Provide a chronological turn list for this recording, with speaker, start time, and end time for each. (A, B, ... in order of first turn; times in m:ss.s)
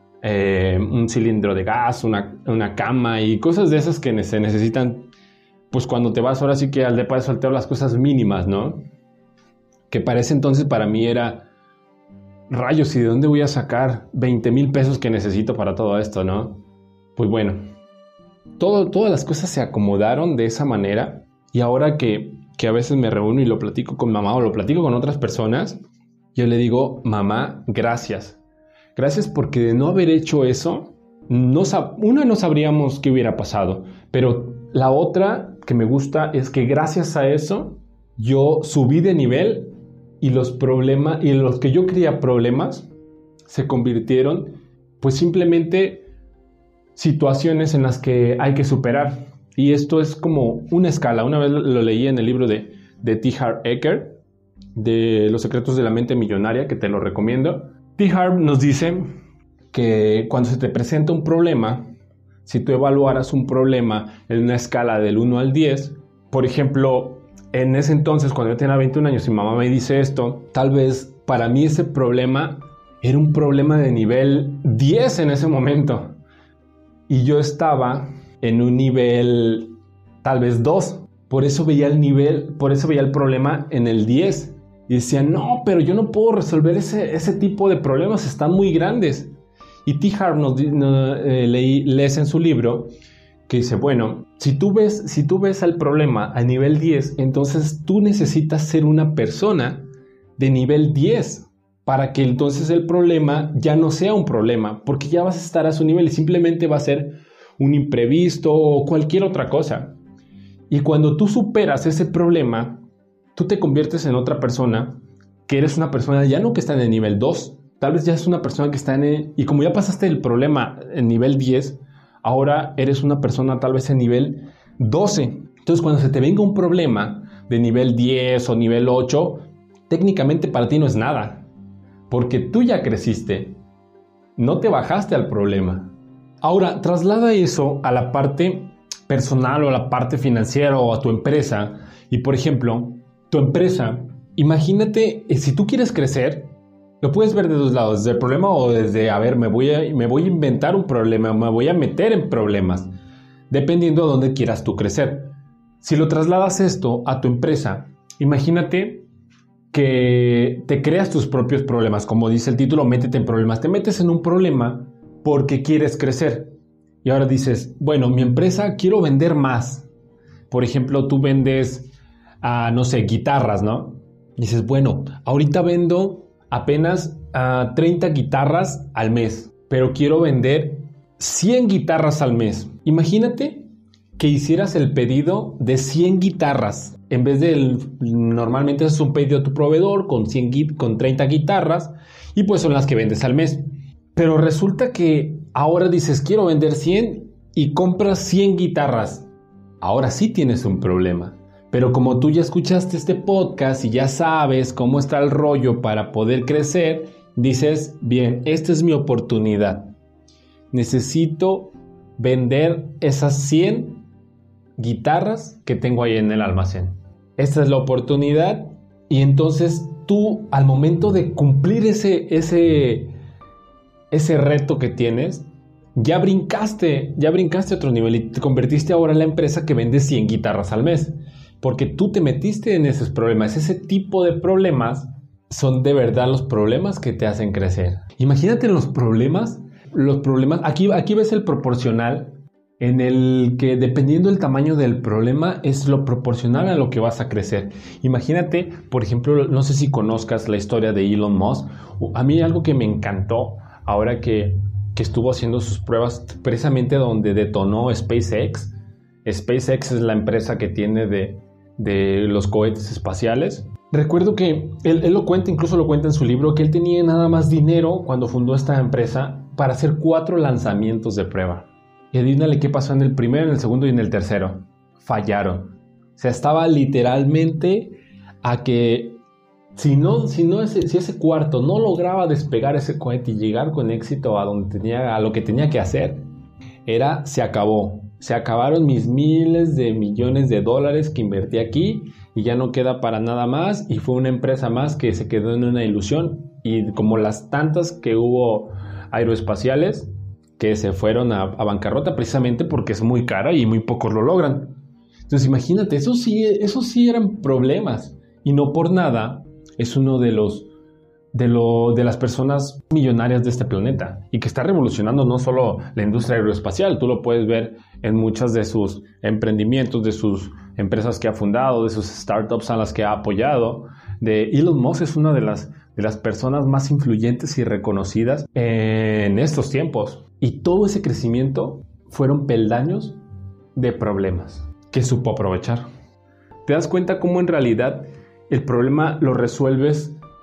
0:00.2-0:05.1 A
0:05.7-0:08.8 A
0:09.9-0:11.5 A
0:12.5-0:16.6 A
0:17.2-0:17.6 A
0:18.6-0:25.8 A
0:26.3-0:28.4 A
0:28.9-0:42.9 A
0:43.5-0:46.1 A
0:46.9-0:54.2 A
0:54.8-0:59.1 A
0:59.7-1:01.9 A
1:02.4-1:16.2 A
1:17.1-1:29.3 A
1:29.8-1:32.9 A
1:33.5-1:39.9 A
1:40.4-1:50.0 A
1:50.7-1:52.8 A
1:53.4-2:11.5 A
2:12.1-2:13.6 A
2:14.4-2:32.9 A
2:33.5-2:39.1 A
2:39.7-2:49.9 A
2:50.5-3:19.3 A
3:19.8-3:29.9 A
3:30.7-3:34.1 A
3:34.8-3:43.1 A
3:44.1-4:39.2 A
4:39.8-4:46.2 A
4:46.9-5:04.8 A
5:05.3-5:10.7 A
5:11.3-5:33.2 A
5:33.8-5:35.8 A
5:36.6-5:40.2 A